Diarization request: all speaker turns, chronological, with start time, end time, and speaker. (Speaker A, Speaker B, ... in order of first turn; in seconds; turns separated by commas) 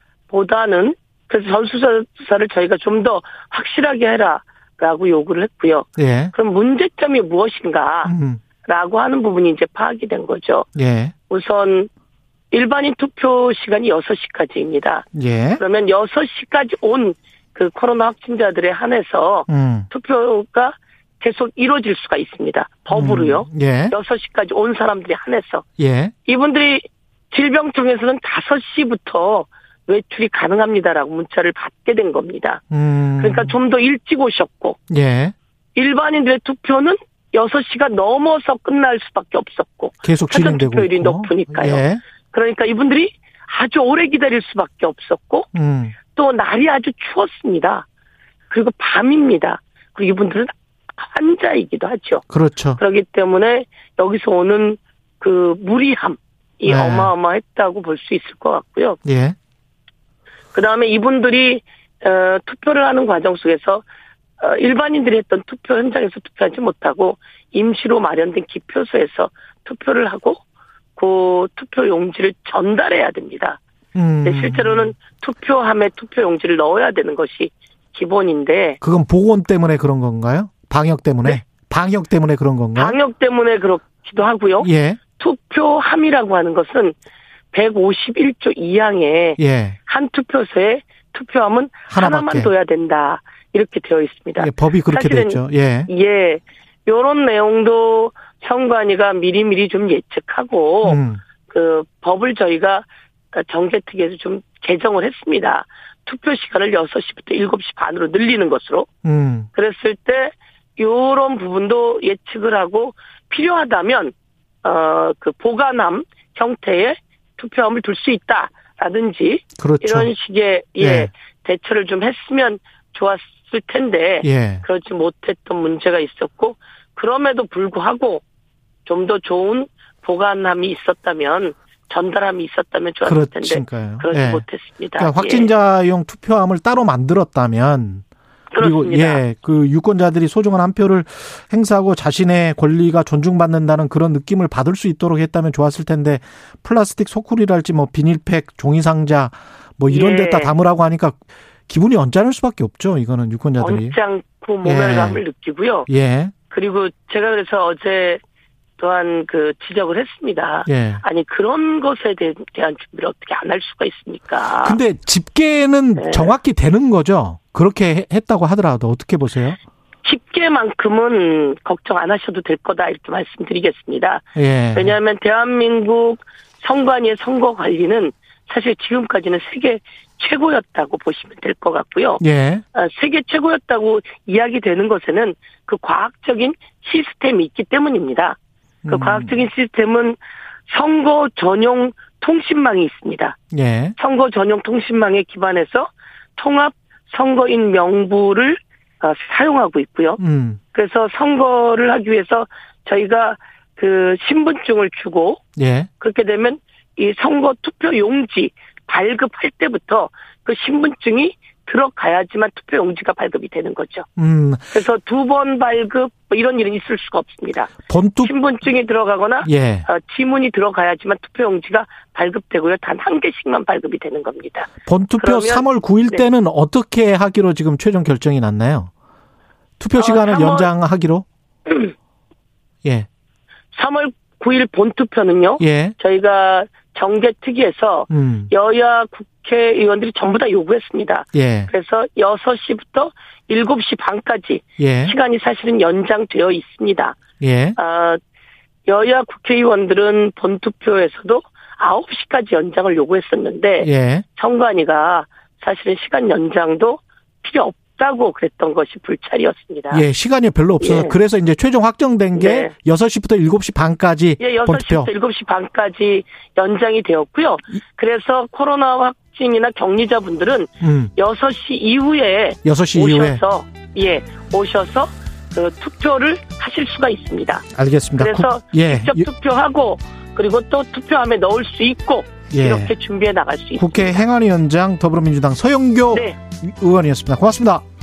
Speaker A: 0.3-8.1, Speaker B: 6.0-6.3, Speaker B: 8.1-8.4, Speaker A: 8.6-10.7, Speaker B: 10.8-11.1, Speaker A: 11.3-11.9, Speaker A: 12.5-15.1, Speaker B: 15.1-15.6, Speaker A: 15.6-25.6, Speaker B: 19.5-19.9, Speaker B: 22.9-23.9, Speaker B: 25.8-26.1, Speaker A: 26.2-32.6, Speaker B: 32.7-33.5, Speaker A: 33.2-34.8, Speaker B: 34.9-35.3, Speaker A: 35.7-45.5, Speaker B: 40.0-42.0, Speaker B: 45.5-46.0, Speaker A: 46.1-47.9, Speaker A: 48.5-52.2, Speaker B: 52.3-52.8, Speaker A: 52.8-59.0, Speaker B: 56.6-57.1, Speaker B: 59.0-59.4, Speaker A: 60.5-63.8, Speaker A: 64.4-70.4, Speaker A: 71.0-73.6, Speaker B: 73.9-74.9, Speaker A: 74.2-78.8, Speaker B: 78.8-83.0, Speaker A: 82.7-86.9, Speaker B: 84.6-85.0, Speaker A: 87.5-108.9, Speaker B: 89.4-89.8, Speaker B: 91.9-92.5, Speaker B: 94.4-95.9, Speaker B: 100.8-101.2, Speaker B: 109.0-109.5, Speaker A: 109.5-128.2, Speaker B: 119.6-120.1, Speaker B: 120.8-121.1, Speaker B: 124.2-124.6, Speaker A: 128.8-135.5, Speaker B: 133.0-134.4, Speaker B: 135.0-138.0, Speaker A: 138.5-139.2, Speaker B: 138.6-153.9, Speaker A: 149.9-150.5, Speaker A: 153.6-155.9, Speaker B: 154.6-155.2, Speaker B: 155.9-156.3, Speaker A: 156.5-158.2, Speaker A: 158.8-164.8, Speaker B: 160.7-161.0, Speaker B: 164.6-169.6, Speaker A: 166.0-166.4, Speaker A: 170.0-182.2, Speaker B: 174.3-174.9, Speaker B: 182.2-182.6, Speaker A: 182.7-188.4, Speaker B: 188.8-189.4, Speaker A: 188.9-193.4, Speaker B: 193.5-193.9, Speaker A: 194.0-200.2, Speaker B: 200.2-200.6, Speaker A: 200.7-205.4, Speaker B: 205.6-205.9, Speaker A: 206.0-214.1, Speaker B: 214.2-214.7, Speaker A: 214.7-226.2, Speaker B: 217.9-218.3, Speaker B: 219.4-219.9, Speaker B: 224.8-228.9, Speaker B: 229.8-231.2, Speaker A: 230.0-230.7, Speaker A: 231.7-231.9, Speaker A: 233.7-247.2, Speaker B: 235.6-235.9, Speaker B: 238.1-238.5, Speaker B: 241.3-241.7, Speaker B: 244.8-245.1, Speaker B: 247.4-247.8, Speaker A: 247.8-248.2, Speaker A: 248.8-260.0, Speaker B: 253.8-254.2, Speaker B: 259.9-265.1, Speaker A: 260.8-261.2, Speaker A: 262.3-262.7, Speaker A: 264.4-277.6, Speaker B: 270.8-271.1, Speaker B: 272.6-273.4, Speaker B: 277.7-279.3, Speaker A: 278.2-284.2, Speaker B: 282.5-282.9, Speaker B: 283.8-287.8, Speaker A: 286.1-286.4